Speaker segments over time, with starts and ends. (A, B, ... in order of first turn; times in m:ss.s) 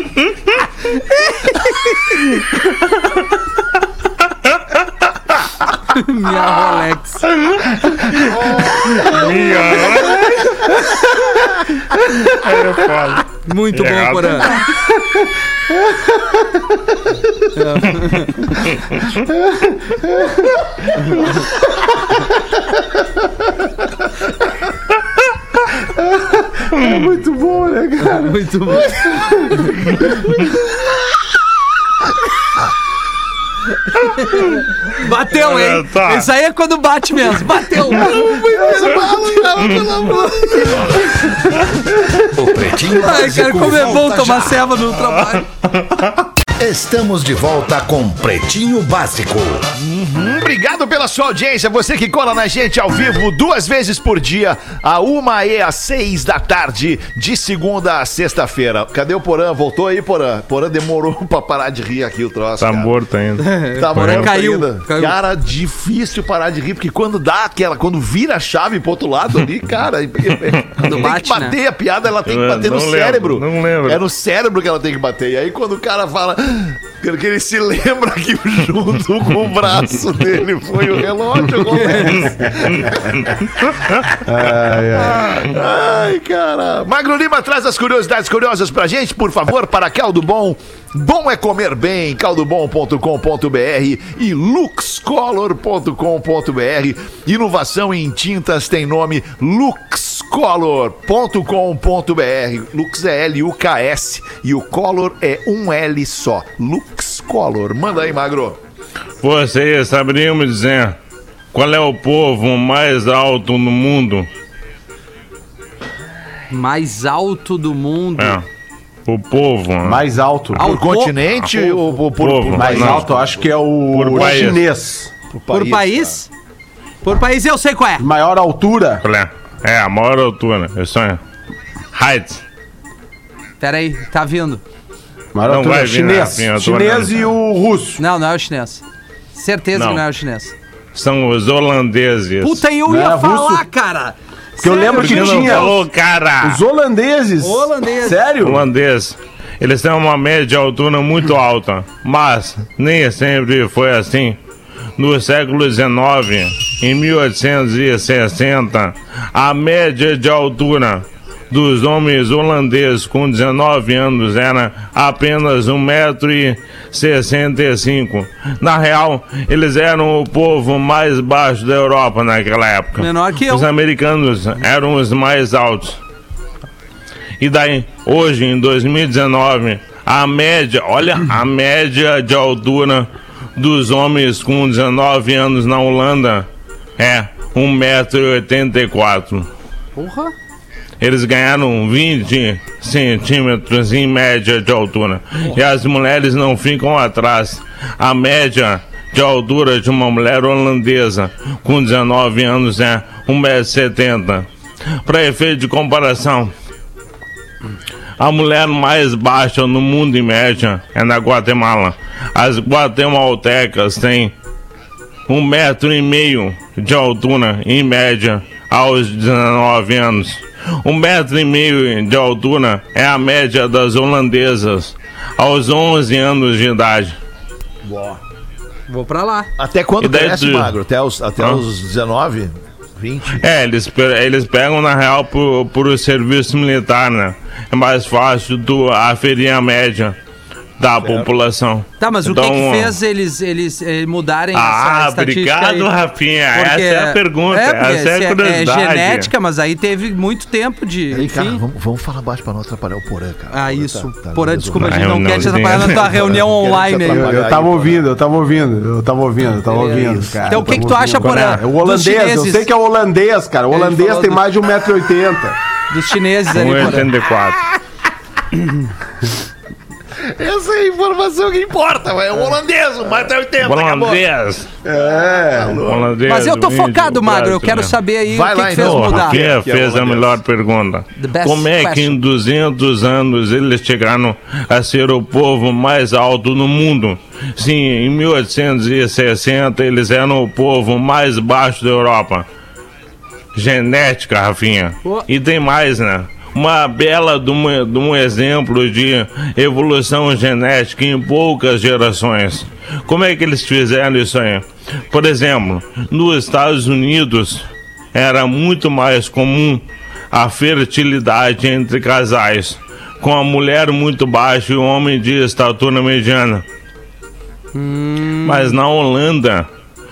0:01.3-0:02.2 A
0:05.9-0:07.3 A
0:07.3-0:10.8 B
0:11.9-0:14.6 B
0:13.4-0:14.6 A
0:14.7-0:15.2 C
0:15.7-0:16.6 C
0:17.5-0:18.6 A
0:19.3-0:20.6 C
0:21.0-0:21.4 A
0:25.9-0:30.4 C
0:28.0-0:29.9 A
0:34.2-0:38.3 A
0:35.3-0:36.3 B
0:37.9-0:41.4 D
0:38.1-0:39.5 C
0:42.2-0:44.4 E
0:42.9-0:45.5 A
0:44.2-0:44.5 D
0:45.0-0:46.1 B
0:46.6-0:49.7 E
0:49.8-1:02.9 D
1:02.6-1:04.3 B
1:03.4-1:05.1 A
1:03.7-1:23.5 D
1:10.8-1:11.6 A
1:12.3-1:14.0 B
1:22.2-1:22.9 C
1:24.2-1:25.4 C
1:24.9-1:48.6 D
1:49.2-1:51.0 B
1:51.5-1:54.3 B
1:56.5-1:58.4 A
1:58.2-1:58.4 B
1:59.0-2:00.0 B
1:59.8-2:00.7 C
2:00.6-2:01.1 A
2:00.6-2:03.5 D
2:01.4-2:03.0 B
2:02.5-2:05.1 C
2:03.9-2:04.6 B
2:05.3-2:06.2 D
2:05.5-2:06.3 A
2:07.0-2:08.1 A
2:08.0-2:09.0 C
2:09.0-2:11.2 B
2:11.9-2:12.4 B
2:13.6-2:14.6 A
2:15.3-2:18.0 C
2:15.4-2:17.2 B
2:18.0-2:18.8 A
2:19.3-2:20.5 A
2:19.7-2:20.0 B
2:20.9-2:22.6 B
2:22.4-2:25.8 A
2:22.8-2:23.6 C
2:24.6-2:25.8 C
2:24.8-2:26.6 B
2:26.4-2:28.7 C
2:27.4-2:28.3 A
2:28.4-2:34.4 B
2:35.0-2:56.0 B
2:53.0-2:53.7 A
2:57.4-3:06.5 B
3:07.0-3:09.5 B
3:10.0-3:10.3 A
3:11.0-3:24.5 B
3:25.0-3:26.5 B
3:28.2-3:34.3 B
3:35.3-3:47.2 B
3:47.8-3:48.2 D
3:48.9-3:49.5 A
3:49.6-3:53.5 D
3:50.0-3:50.8 B
3:53.4-4:00.2 B
4:00.8-4:03.0 B
4:01.0-4:01.3 D
4:02.0-4:05.9 A
4:04.5-4:09.3 B
4:06.5-4:11.6 A
4:11.1-4:18.1 D
4:13.5-4:17.3 A
4:14.8-4:16.3 B
4:17.1-4:25.6 C
4:19.7-4:22.7 A
4:19.9-4:20.7 D
4:21.2-4:21.6 B
4:23.7-4:24.4 A
4:25.9-4:27.1 A
4:26.5-4:27.6 B
4:30.2-4:34.2 D
4:33.6-4:34.7 B
4:34.8-4:35.8 C
4:35.5-4:36.2 D
4:35.8-4:38.0 B
4:36.2-4:39.4 A
4:38.2-4:40.4 D
4:38.7-4:52.4 B
4:41.2-4:42.2 A
4:53.5-5:16.6 B
5:17.7-5:18.8 A
5:18.4-5:19.7 B